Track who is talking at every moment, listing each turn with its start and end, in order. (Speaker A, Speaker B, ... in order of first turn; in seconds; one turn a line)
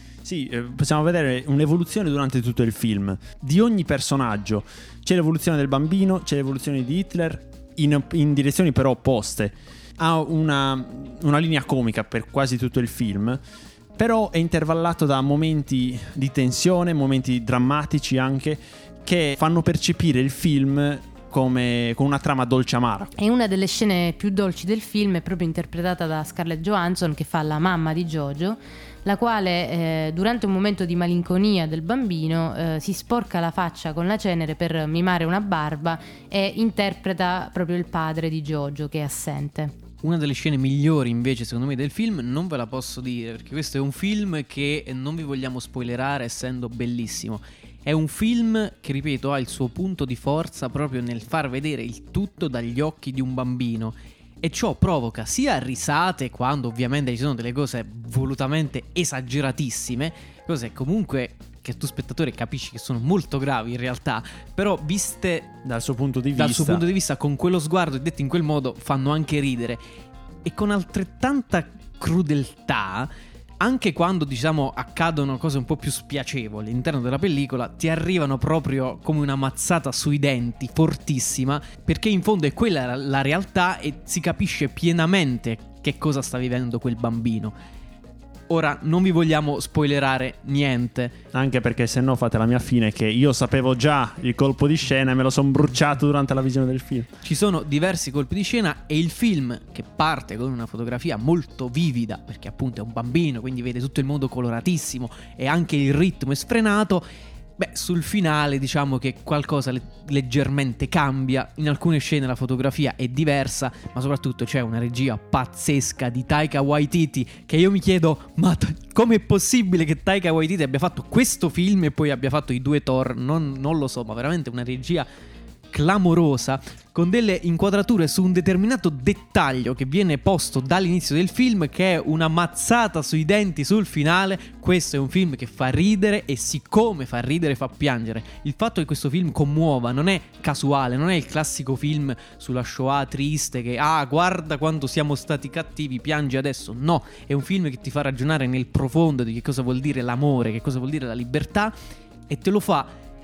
Speaker A: 0.2-13.4
Speaker A: 14.0-23.1
Speaker B: 23.2-39.8
Speaker C: 40.0-65.5
Speaker A: 65.7-66.8
Speaker C: 66.4-69.8
Speaker C: 70.5-87.5
Speaker C: 88.5-91.2
Speaker A: 91.3-97.1
Speaker C: 97.2-107.0
Speaker C: 107.6-125.1
Speaker C: 125.7-151.7
Speaker C: 152.3-152.9